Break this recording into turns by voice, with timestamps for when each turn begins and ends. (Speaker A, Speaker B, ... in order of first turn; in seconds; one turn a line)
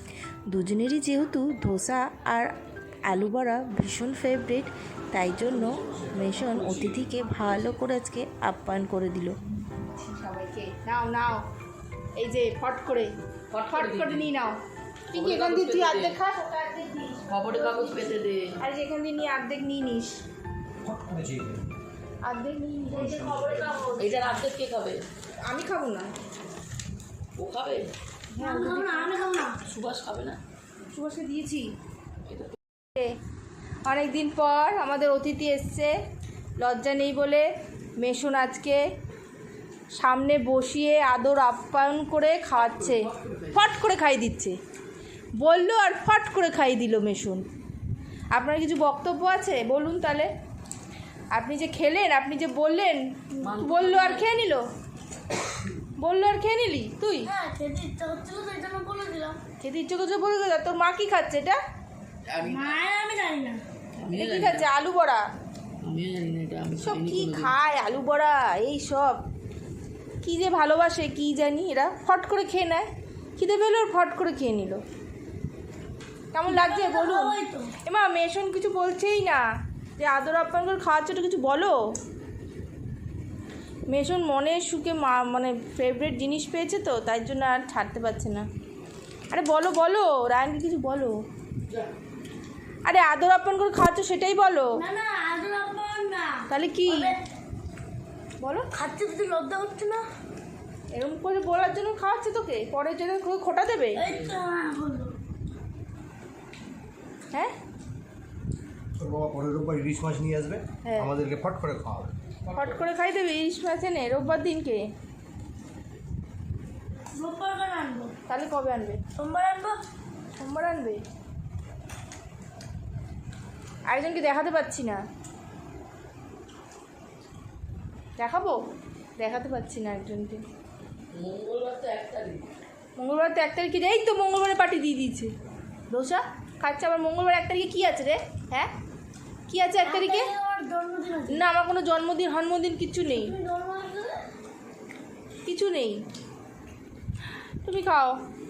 Speaker A: 0.5-2.5
Speaker A: 3.0-9.4
Speaker B: 5.9-7.0
Speaker C: 9.8-11.4
Speaker C: 12.2-13.1
Speaker B: 13.5-14.4
Speaker C: 13.7-14.6
Speaker C: 15.1-20.2
Speaker B: 15.1-16.2
Speaker B: 17.3-18.5
Speaker D: 20.8-21.6
Speaker C: 22.2-24.1
Speaker D: 22.9-23.9
Speaker B: 23.9-25.0
Speaker C: 25.4-26.1
Speaker B: 27.4-27.9
Speaker C: 28.3-29.2
Speaker E: 28.4-29.6
Speaker B: 29.6-30.4
Speaker C: 30.9-31.7
Speaker C: 33.8-35.9
Speaker C: 36.6-37.5
Speaker C: 38.0-38.8
Speaker C: 39.9-44.5
Speaker B: 42.5-43.5
Speaker C: 45.4-47.4
Speaker C: 48.3-50.3
Speaker C: 51.3-54.7
Speaker B: 53.4-54.3
Speaker C: 56.0-57.3
Speaker E: 57.2-59.4
Speaker C: 59.6-61.6
Speaker B: 62.3-62.8
Speaker E: 62.4-63.6
Speaker B: 64.0-64.7
Speaker C: 64.1-65.2
Speaker B: 65.8-67.5
Speaker C: 66.8-69.2
Speaker C: 70.2-74.8
Speaker C: 76.3-79.4
Speaker E: 76.5-77.7
Speaker C: 80.0-81.9
Speaker C: 83.9-88.5
Speaker C: 89.3-91.2
Speaker C: 92.8-94.8
Speaker E: 94.8-97.2
Speaker C: 96.5-97.2
Speaker C: 98.4-98.7
Speaker E: 98.7-100.1
Speaker C: 100.9-104.0
Speaker E: 104.0-105.2
Speaker D: 109.0-112.1
Speaker C: 110.8-111.1
Speaker C: 112.5-114.9
Speaker E: 117.1-118.1
Speaker C: 118.3-119.0
Speaker E: 119.1-119.8
Speaker C: 120.4-121.0
Speaker C: 123.8-125.0
Speaker C: 128.2-128.6
Speaker C: 129.2-130.4
Speaker B: 131.1-132.4
Speaker C: 133.0-135.3
Speaker C: 135.9-138.7
Speaker C: 139.5-140.3
Speaker E: 139.8-141.4
Speaker C: 141.3-143.3
Speaker E: 143.1-144.2
Speaker C: 145.4-146.0
Speaker C: 147.6-148.2